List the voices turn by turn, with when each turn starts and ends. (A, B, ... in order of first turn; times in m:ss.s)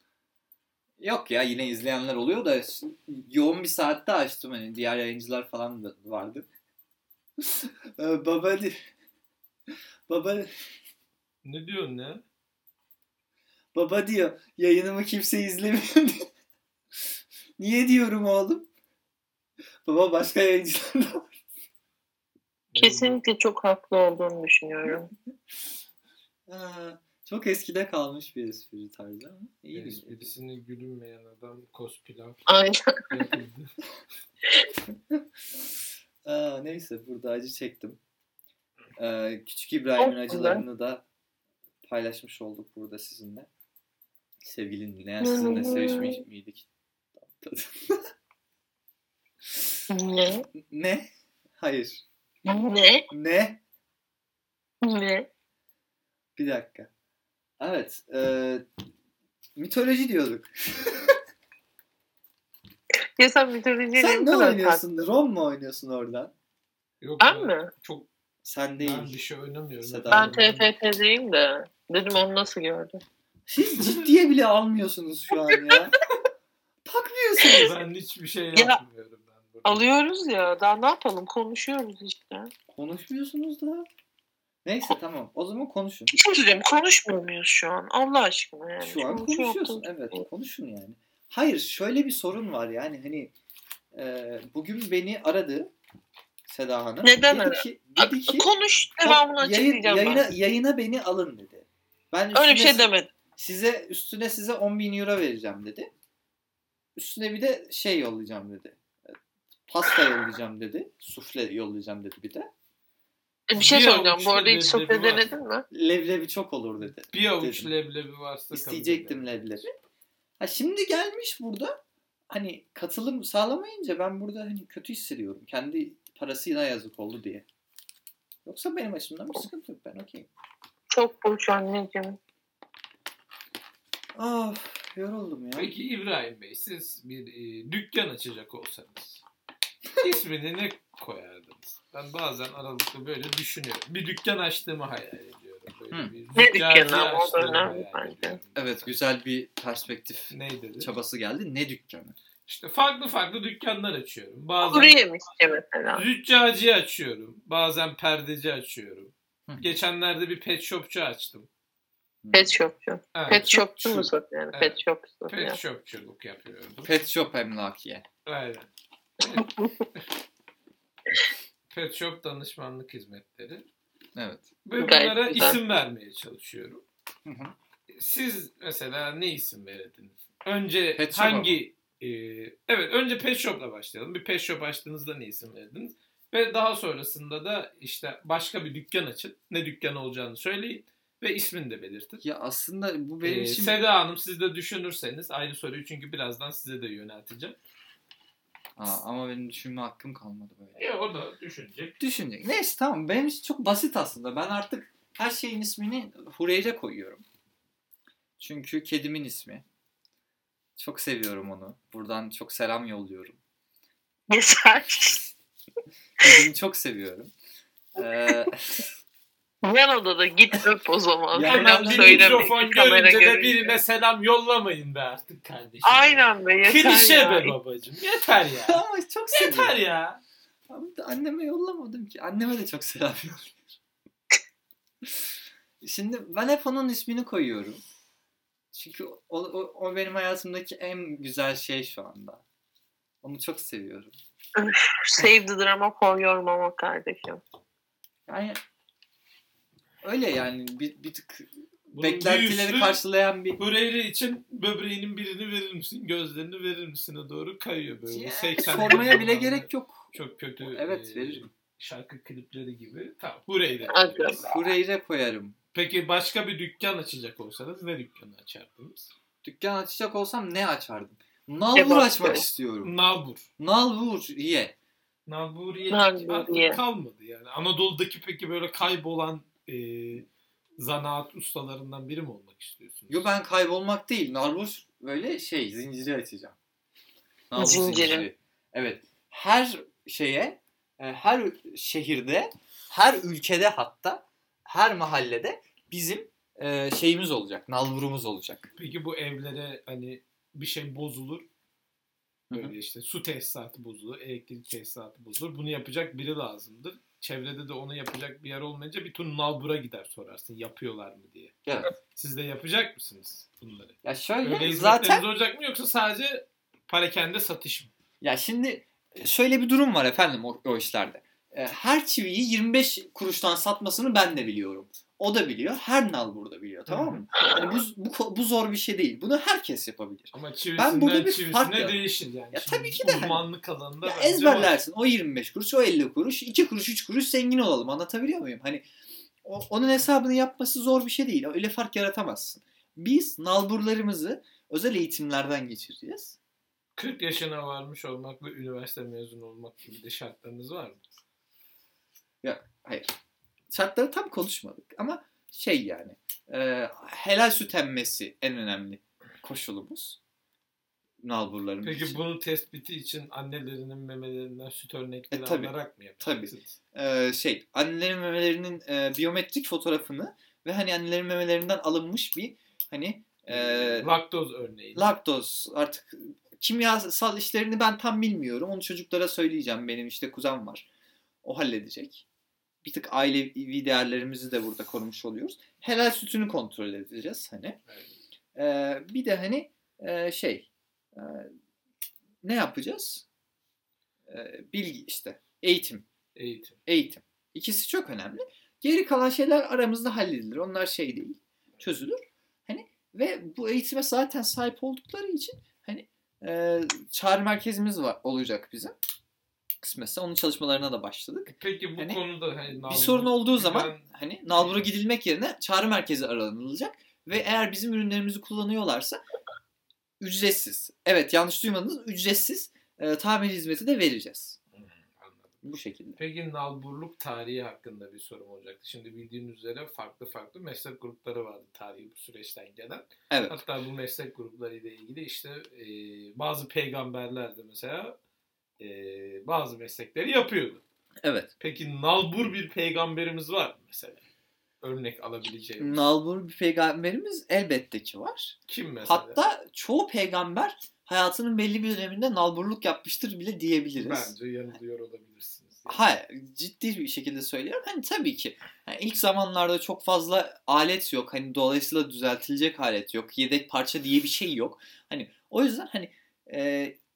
0:01.0-0:06.5 A
0:07.4-0:08.8 A
0:10.1-0:10.5 A
0:11.4-0:12.2 B
0:13.7-0:16.2 A
0:17.6-0:18.7 A
0:19.8-0:21.4 A
0:22.7-0:23.2 B
0:22.8-0:25.1 C
0:26.5-0:30.3 A
0:29.7-0:32.4 B
0:32.5-0:33.3 C
0:33.1-0:33.7 B
0:36.2-0:38.0 A
0:39.0-0:41.0 A
0:40.0-0:40.6 C
0:41.8-0:43.5 A
0:44.4-0:46.6 A
0:45.2-0:46.2 C
0:47.2-0:48.1 A
0:49.9-0:50.4 C
0:50.7-0:51.1 A
0:51.6-0:52.0 A
0:52.4-0:53.1 C
0:53.1-0:53.6 A
0:54.8-0:55.3 C
0:56.4-0:56.9 A
0:57.6-0:58.6 A
0:59.6-1:01.1 A
1:03.2-1:04.8 C
1:04.0-1:06.3 A
1:07.0-1:08.1 B
1:07.2-1:07.7 C
1:08.4-1:09.2 A
1:08.8-1:10.7 B
1:09.8-1:10.4 A
1:10.1-1:13.0 C
1:13.5-1:16.0 A
1:13.7-1:14.1 B
1:15.4-1:15.8 C
1:16.8-1:17.7 A
1:17.4-1:17.7 C
1:17.6-1:19.9 B
1:19.6-1:22.5 C
1:22.7-1:23.9 A
1:24.6-1:26.1 A
1:26.1-1:30.2 C
1:28.8-1:33.3 A
1:33.9-1:35.7 A
1:36.5-1:38.5 A
1:37.0-1:40.3 C
1:39.0-1:45.9 A
1:42.3-1:43.1 C
1:47.0-1:49.2 A
1:49.7-1:52.5 A
1:53.5-1:55.6 C
1:53.5-1:55.3 B
1:55.7-1:57.7 A
1:57.0-1:59.6 B
1:58.5-1:59.7 A
2:00.4-2:01.8 A
2:02.3-2:07.4 A
2:08.4-2:10.3 A
2:10.9-2:12.2 C
2:14.2-2:15.7 A
2:15.6-2:19.2 B
2:20.0-2:28.9 B
2:26.4-2:28.4 C
2:28.6-2:32.1 A
2:30.3-2:30.9 B
2:32.4-2:35.0 B
2:34.6-2:36.0 C
2:35.9-2:41.5 B
2:39.5-2:39.7 A
2:42.2-2:42.6 A
2:42.3-2:45.6 C
2:43.1-2:43.8 B
2:43.3-2:44.1 A
2:44.5-2:46.9 B
2:46.8-2:48.0 A
2:48.2-2:48.7 B
2:49.2-2:50.0 B
2:49.3-2:49.8 C
2:51.7-2:53.6 B
2:54.2-2:54.5 A
2:54.6-2:56.8 B
2:54.8-2:55.6 C
2:57.2-2:57.5 A
2:57.9-3:12.2 B
3:01.0-3:01.6 A
3:12.2-3:13.8 A
3:13.2-3:17.6 B
3:18.8-3:20.8 A
3:20.8-3:22.0 B
3:22.0-3:27.2 A
3:28.4-3:29.6 A
3:30.8-3:33.4 A
3:34.3-3:35.3 C
3:36.2-3:37.3 A
3:38.0-3:38.9 A
3:39.6-3:43.7 C
3:41.3-3:42.5 A
3:41.4-3:50.2 B
3:45.8-3:47.5 C
3:48.6-3:49.8 A
3:50.7-3:53.6 A
3:55.8-3:57.8 A
3:58.7-4:02.4 A
4:03.2-4:04.2 A
4:04.6-4:07.4 C
4:08.3-4:08.6 A
4:10.0-4:13.6 A
4:11.9-4:13.0 B
4:13.6-4:24.5 B
4:18.1-4:20.1 A
4:18.7-4:19.1 C
4:20.6-4:21.5 A
4:23.9-4:24.6 C
4:24.4-4:25.5 A
4:25.7-4:29.1 B
4:29.4-4:32.9 A
4:31.7-4:32.4 C
4:32.8-4:33.4 B
4:33.6-4:34.7 A
4:35.3-4:40.2 B
4:35.9-4:36.8 C
4:40.8-4:43.3 B
4:43.1-4:46.6 A
4:47.5-4:58.7 A
4:47.5-4:48.3 C
4:58.8-5:01.5 B
5:02.5-5:02.7 A
5:02.5-5:17.9 B
5:11.6-5:11.9 A
5:14.0-5:15.2 A
5:18.2-5:32.0 A
5:26.9-5:27.2 B
5:27.5-5:27.8 C
5:30.3-5:34.8 B
5:32.5-5:33.4 A
5:34.0-5:38.8 A
5:39.4-5:46.4 A
5:47.0-5:51.0 B
5:52.4-5:53.1 A
5:53.7-6:00.2 A
6:01.2-6:02.2 A
6:01.8-6:06.7 B
6:05.3-6:14.1 A
6:13.5-6:15.1 B
6:14.9-6:20.8 A
6:21.4-6:22.2 A
6:22.8-6:27.8 A
6:28.5-6:31.5 A
6:32.4-6:33.2 A
6:34.3-6:36.0 A
6:36.3-6:36.8 B
6:36.9-6:48.9 A
6:49.8-6:52.2 A
6:51.5-6:54.8 B
6:52.8-6:59.2 A
7:00.2-7:04.6 A
7:04.7-7:05.6 B
7:05.6-7:06.2 A
7:06.2-7:18.2 B
7:13.3-7:13.6 A
7:18.8-7:20.8 B
7:21.2-7:21.5 A
7:21.6-7:24.2 B
7:24.8-7:26.0 B
7:25.8-7:34.3 A
7:28.7-7:29.4 B
7:34.0-7:36.1 B
7:35.9-7:47.0 A